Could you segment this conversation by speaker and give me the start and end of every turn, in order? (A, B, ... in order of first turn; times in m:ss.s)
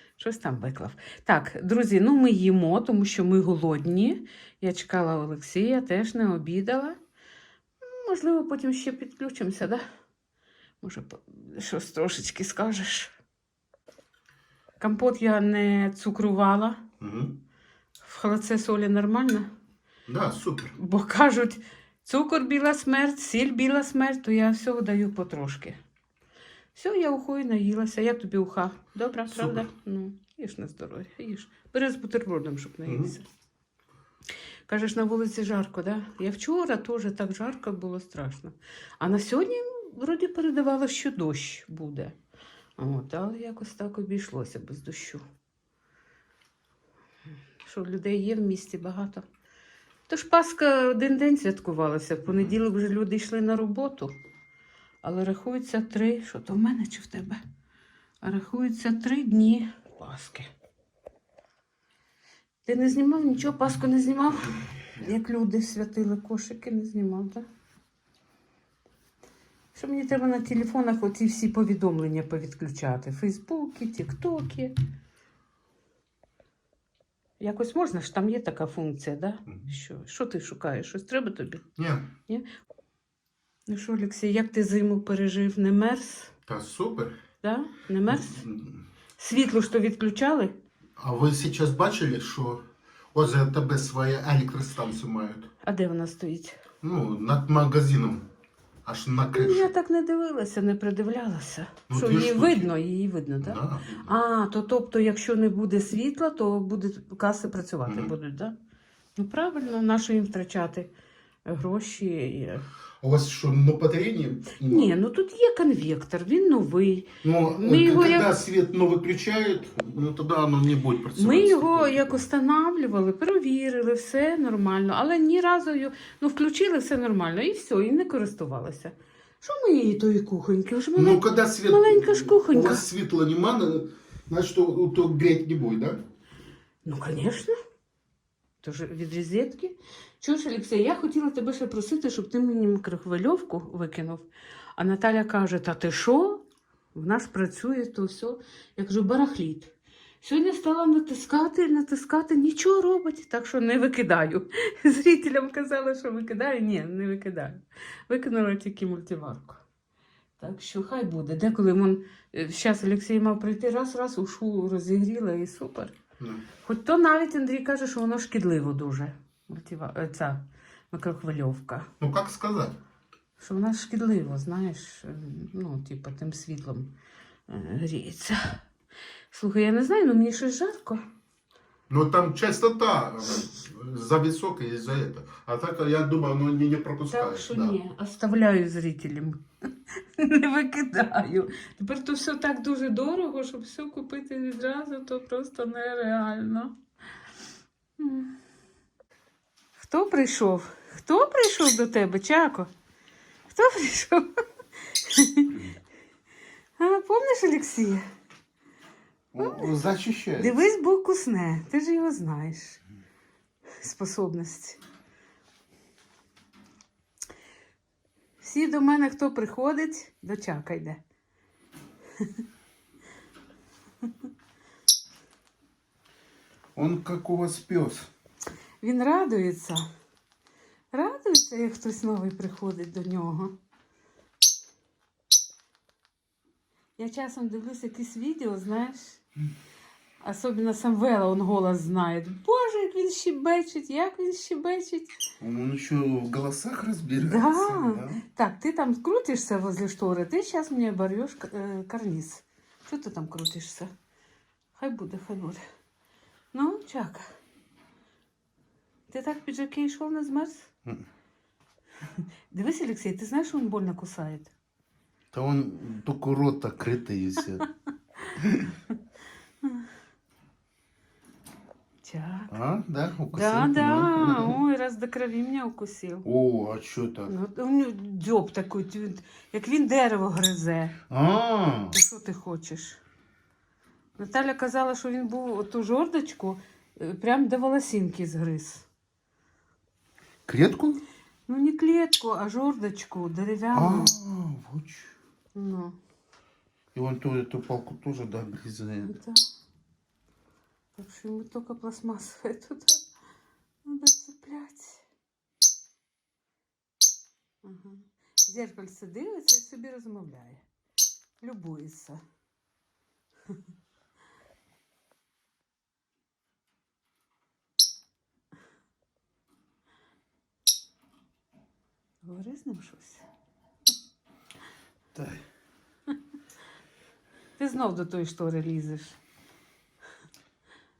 0:00.2-0:07.0 A
0:07.8-0:09.8 A
0:10.8-0:13.1 A
0:14.8-0:16.8 A
0:17.0-0:17.4 B
0:18.0-0:19.5 A
0:20.1-0:20.8 B
0:20.8-0:25.8 A
0:26.7-0:33.3 A
0:29.2-0:29.7 B
0:32.8-0:33.2 B
0:34.7-0:42.1 A
0:42.8-0:45.2 A
0:47.6-0:49.2 A
0:50.1-0:54.1 A
0:52.2-0:52.5 B
0:55.0-0:57.4 A
0:58.2-1:00.5 A
1:02.6-1:04.4 A
1:05.0-1:07.4 A
1:09.7-1:14.7 A
1:17.4-1:21.6 A
1:21.8-1:22.0 B
1:23.7-1:26.3 A
1:26.5-1:27.2 B
1:28.0-1:28.8 B
1:29.9-1:30.5 A
1:31.0-1:35.5 B
1:35.7-1:36.5 A
1:36.8-1:38.2 B
1:38.8-1:39.7 B
1:39.3-1:41.9 A
1:41.9-1:44.2 B
1:44.0-1:48.5 A
1:47.8-1:48.1 B
1:49.2-1:50.9 A
1:51.5-1:52.6 A
1:53.0-1:54.9 B
1:54.7-1:57.1 A
1:57.2-2:02.3 B
1:57.6-1:58.3 A
2:01.2-2:11.2 A
2:10.9-2:16.0 B
2:11.7-2:12.8 A
2:16.8-2:17.5 A
2:18.6-2:26.4 A
2:26.9-2:39.6 A
2:40.4-2:45.9 A
2:46.2-2:46.4 B
2:46.6-2:51.9 A
2:52.0-2:52.8 B
2:53.4-2:56.9 A
2:57.5-2:58.4 A
2:59.3-3:01.0 A
3:01.9-3:07.8 B
3:07.1-3:09.4 A
3:10.2-3:16.7 A
3:18.0-3:18.3 A
3:19.8-3:22.7 A
3:23.5-3:24.2 A
3:25.0-3:25.5 A
3:26.8-3:28.1 A
3:29.3-3:30.7 B
3:29.4-3:29.7 A
3:30.4-3:32.8 A
3:33.8-3:34.8 A
3:38.4-3:41.0 A
3:46.7-3:48.1 B
3:48.8-3:49.8 A
3:50.9-3:53.6 A
3:57.0-3:59.2 A
4:00.3-4:05.1 A
4:05.4-4:08.2 B
4:07.2-4:13.9 A
4:14.7-4:15.6 A
4:16.5-4:17.3 A
4:19.1-4:20.7 A
4:22.5-4:24.5 A
4:25.3-4:27.6 B
4:28.4-4:28.7 B
4:32.0-4:32.5 A
4:32.5-4:34.6 B
4:33.3-4:36.2 A
4:36.2-4:37.4 B
4:37.3-4:40.9 A
4:41.1-4:42.0 B
4:41.9-4:43.0 A
4:44.2-4:48.6 A
4:50.5-4:51.0 B
4:51.7-4:53.8 A
4:53.7-4:55.1 B
4:55.6-4:55.9 A
4:56.9-4:59.2 B
4:59.0-4:59.4 A
5:01.0-5:03.0 A
5:03.8-5:05.0 A
5:07.6-5:10.6 A
5:11.4-5:12.2 A
5:22.3-5:23.2 A
5:25.1-5:25.4 B
5:28.2-5:29.1 A